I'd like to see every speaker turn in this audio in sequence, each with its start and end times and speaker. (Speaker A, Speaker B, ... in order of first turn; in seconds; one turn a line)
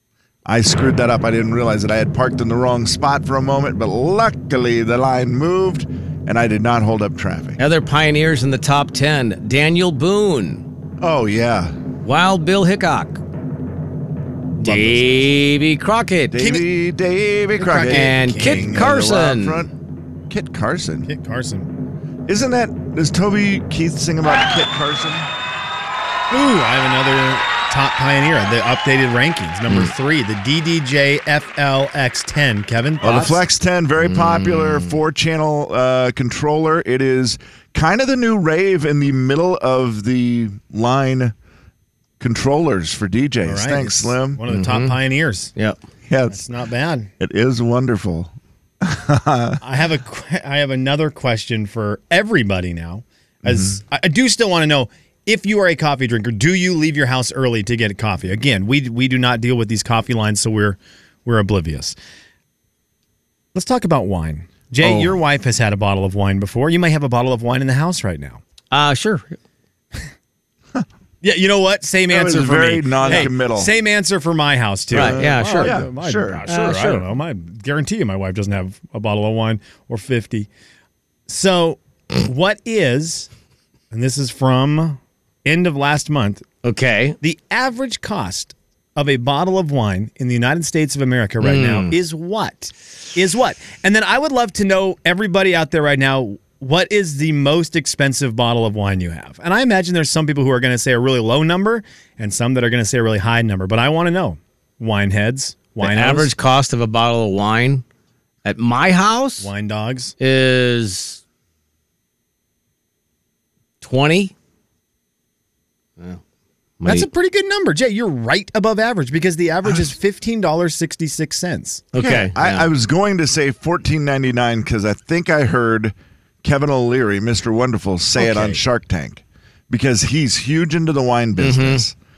Speaker A: 0.5-7.6
Speaker B: 7.6-10.6
Speaker A: 11.0-11.8
Speaker B: 12.0-13.2
Speaker C: 14.6-15.2
Speaker B: 14.6-16.4
Speaker A: 16.3-19.7
Speaker C: 16.4-16.6
Speaker C: 17.6-18.9
Speaker B: 17.9-19.7
Speaker A: 20.3-21.1
Speaker C: 21.1-21.7
Speaker A: 22.3-25.3
Speaker C: 26.3-33.4
Speaker A: 33.0-41.3
Speaker B: 34.0-35.0
Speaker A: 42.2-44.4
Speaker C: 43.4-45.5
Speaker B: 44.5-45.0
Speaker A: 46.1-46.4
Speaker C: 46.3-47.1
Speaker A: 47.2-49.6
Speaker C: 49.6-62.0
Speaker A: 53.4-53.8
Speaker C: 63.5-68.4
Speaker A: 64.8-65.2
Speaker B: 68.7-69.3
Speaker C: 71.2-80.5
Speaker A: 72.1-73.7
Speaker A: 74.9-76.5
Speaker B: 74.9-75.8
Speaker B: 76.5-77.0
Speaker C: 81.3-83.3
Speaker C: 83.9-86.5
Speaker B: 86.6-87.2
Speaker C: 87.2-106.3
Speaker B: 91.4-91.9
Speaker B: 105.8-107.8
Speaker B: 108.5-109.5
Speaker C: 109.4-110.1
Speaker B: 110.2-111.2
Speaker B: 113.8-114.3
Speaker B: 116.8-117.1
Speaker C: 116.8-121.8
Speaker B: 121.9-122.7
Speaker A: 122.0-131.9
Speaker C: 128.2-128.6
Speaker B: 131.4-131.8